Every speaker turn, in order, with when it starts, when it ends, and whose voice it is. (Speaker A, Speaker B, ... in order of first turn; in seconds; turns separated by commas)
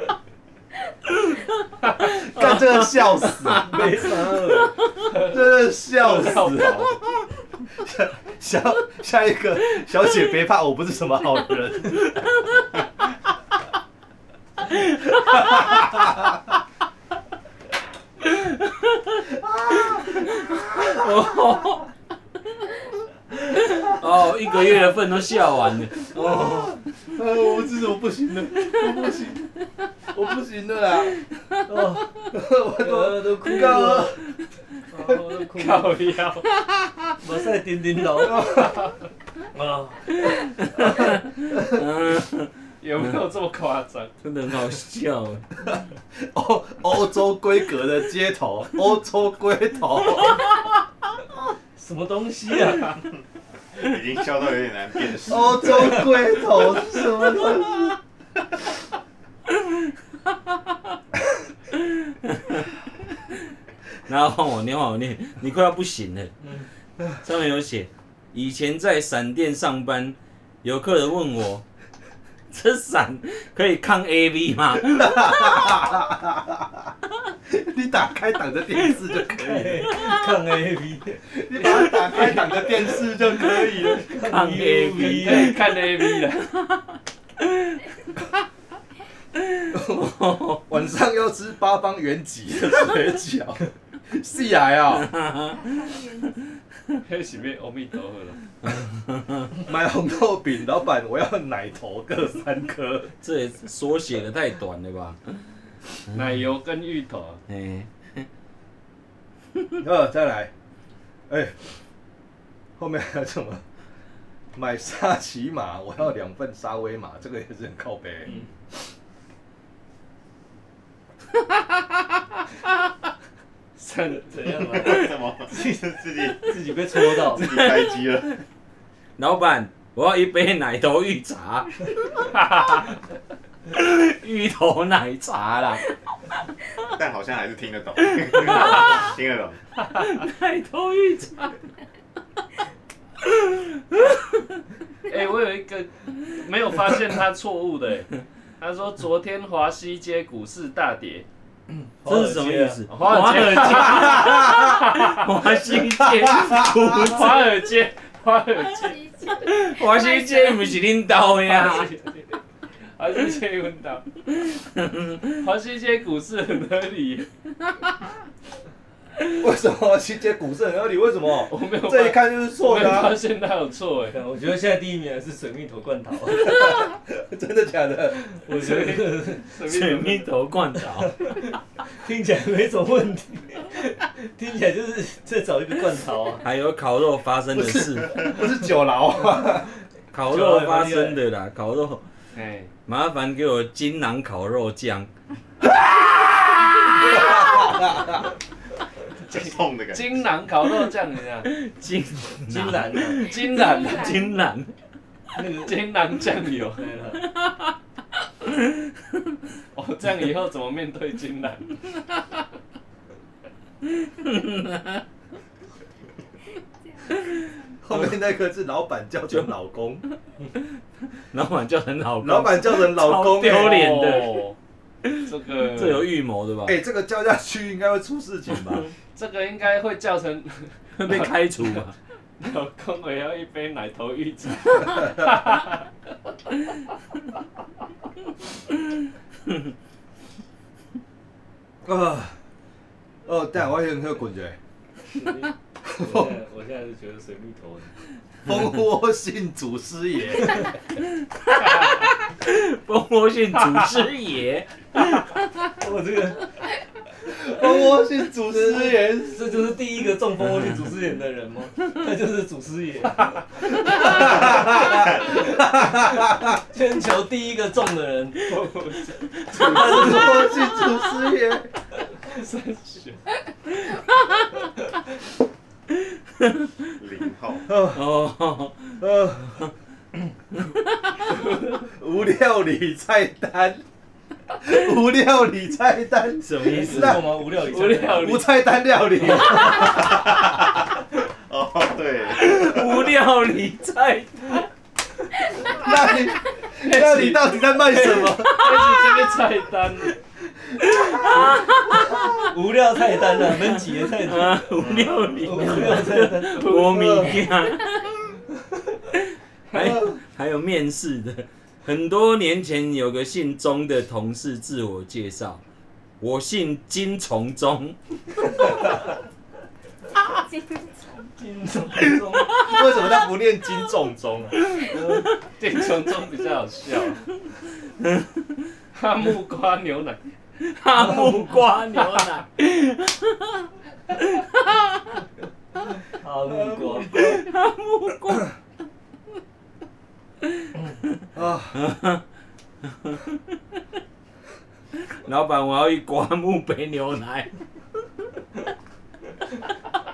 Speaker A: 2.0-4.3, Speaker B: 3.5-4.7, Speaker A: 5.2-12.1, Speaker C: 6.0-6.9, Speaker A: 15.2-16.3, Speaker D: 15.3-15.7, Speaker D: 18.3-19.2, Speaker A: 19.3-21.3, Speaker D: 20.7-21.9, Speaker D: 23.7-26.7, Speaker A: 26.1-29.5, Speaker A: 30.1-31.1, Speaker B: 31.7-32.2, Speaker A: 32.3-34.2, Speaker B: 32.7-34.2, Speaker B: 34.9-35.9, Speaker C: 35.5-36.4, Speaker B: 37.2-38.7, Speaker A: 38.2-38.9, Speaker B: 39.5-40.5, Speaker D: 40.2-42.5, Speaker A: 41.5-41.8, Speaker C: 42.8-44.1, Speaker D: 44.2-45.5, Speaker A: 46.2-50.4, Speaker B: 51.8-53.0, Speaker E: 53.8-56.2, Speaker A: 55.2-58.0, Speaker D: 62.2-62.7, Speaker D: 64.1-66.3, Speaker D: 67.2-71.6, Speaker D: 72.5-75.9, Speaker A: 74.8-76.9, Speaker A: 77.5-80.0, Speaker B: 79.4-82.3, Speaker A: 81.3-84.1, Speaker D: 81.7-82.3, Speaker B: 84.0-85.6, Speaker D: 84.1-86.8, Speaker C: 85.0-86.5, Speaker D: 89.6-90.7, Speaker A: 89.7-95.1, Speaker D: 94.9-95.6, Speaker F: 95.5-96.4, Speaker C: 97.0-98.4, Speaker D: 98.6-99.5, Speaker A: 99.6-103.1, Speaker D: 103.2-105.2, Speaker C: 106.1-107.4, Speaker D: 107.5-108.3, Speaker A: 109.8-110.5, Speaker A: 111.3-111.6, Speaker A: 112.8-113.6, Speaker A: 114.5-118.3, Speaker C: 123.8-124.9, Speaker B: 124.3-125.8, Speaker E: 124.7-128.4, Speaker B: 126.3-127.6, Speaker D: 129.2-132.2, Speaker D: 133.7-135.9, Speaker E: 136.9-139.6, Speaker D: 138.2-139.1, Speaker D: 140.0-141.5, Speaker C: 145.1-151.2, Speaker B: 151.7-152.8, Speaker D: 152.0-157.5, Speaker C: 152.9-155.2, Speaker A: 153.7-154.7, Speaker A: 155.9-157.0, Speaker C: 156.9-159.0, Speaker F: 158.6-160.7, Speaker D: 159.4-161.9, Speaker C: 161.4-162.4, Speaker C: 163.0-164.0, Speaker D: 164.5-165.3, Speaker C: 165.4-167.3, Speaker A: 169.4-173.2, Speaker C: 171.5-174.2, Speaker B: 174.1-176.7, Speaker A: 176.4-178.2, Speaker B: 178.3-179.4, Speaker C: 178.5-180.3, Speaker D: 179.6-181.3, Speaker B: 181.9-186.4, Speaker D: 186.4-188.4, Speaker A: 187.5-189.7, Speaker D: 190.1-192.0, Speaker B: 190.3-191.2, Speaker C: 192.3-192.7, Speaker D: 192.8-195.1, Speaker A: 196.8-198.3, Speaker D: 196.8-197.7, Speaker C: 199.3-201.5, Speaker E: 199.3-200.2, Speaker D: 201.5-204.7, Speaker B: 202.5-203.3, Speaker C: 203.2-204.2, Speaker F: 203.6-204.3, Speaker B: 205.3-205.7, Speaker C: 205.6-206.9, Speaker B: 206.8-207.2, Speaker C: 209.7-211.9, Speaker D: 214.2-215.0, Speaker F: 216.9-217.3, Speaker A: 217.8-220.0, Speaker D: 221.3-224.4, Speaker A: 222.2-223.8, Speaker C: 223.4-224.6, Speaker D: 225.1-226.8, Speaker C: 225.2-226.1, Speaker A: 226.7-228.9, Speaker C: 229.1-231.8, Speaker D: 231.0-231.9, Speaker C: 232.4-235.8, Speaker A: 241.8-242.3, Speaker A: 243.2-244.6, Speaker B: 245.2-247.9, Speaker A: 245.8-246.4, Speaker A: 248.4-250.7, Speaker D: 251.5-255.3, Speaker B: 255.8-256.5, Speaker A: 257.2-259.8, Speaker B: 258.6-265.4, Speaker A: 263.9-266.6, Speaker B: 266.7-268.6, Speaker C: 268.5-269.1, Speaker B: 269.5-270.6, Speaker A: 269.6-271.7, Speaker C: 272.3-273.2, Speaker D: 276.4-276.7, Speaker E: 277.0-277.7, Speaker A: 277.7-278.0, Speaker D: 277.9-279.0, Speaker A: 279.0-279.6, Speaker A: 281.8-283.8, Speaker A: 284.6-287.4, Speaker B: 286.6-288.4, Speaker D: 286.6-287.0, Speaker C: 287.5-288.6, Speaker A: 288.1-290.6, Speaker E: 291.4-293.1, Speaker D: 292.3-294.6, Speaker A: 295.6-298.8, Speaker C: 296.8-300.2, Speaker D: 298.2-299.1, Speaker A: 300.9-301.5, Speaker D: 300.9-302.4, Speaker B: 302.4-306.8, Speaker D: 303.5-308.1, Speaker C: 306.6-307.3, Speaker D: 309.7-315.6, Speaker A: 309.7-310.1, Speaker D: 316.2-318.0, Speaker F: 320.2-321.3, Speaker B: 321.4-322.7, Speaker A: 322.6-324.5, Speaker D: 324.7-325.1, Speaker C: 325.6-327.2, Speaker D: 328.0-328.3, Speaker C: 328.9-330.2, Speaker D: 330.6-334.8, Speaker B: 336.1-337.3, Speaker A: 336.5-337.4, Speaker D: 337.1-338.5, Speaker A: 341.3-341.8, Speaker D: 341.7-342.2, Speaker D: 342.9-343.4, Speaker D: 345.1-347.5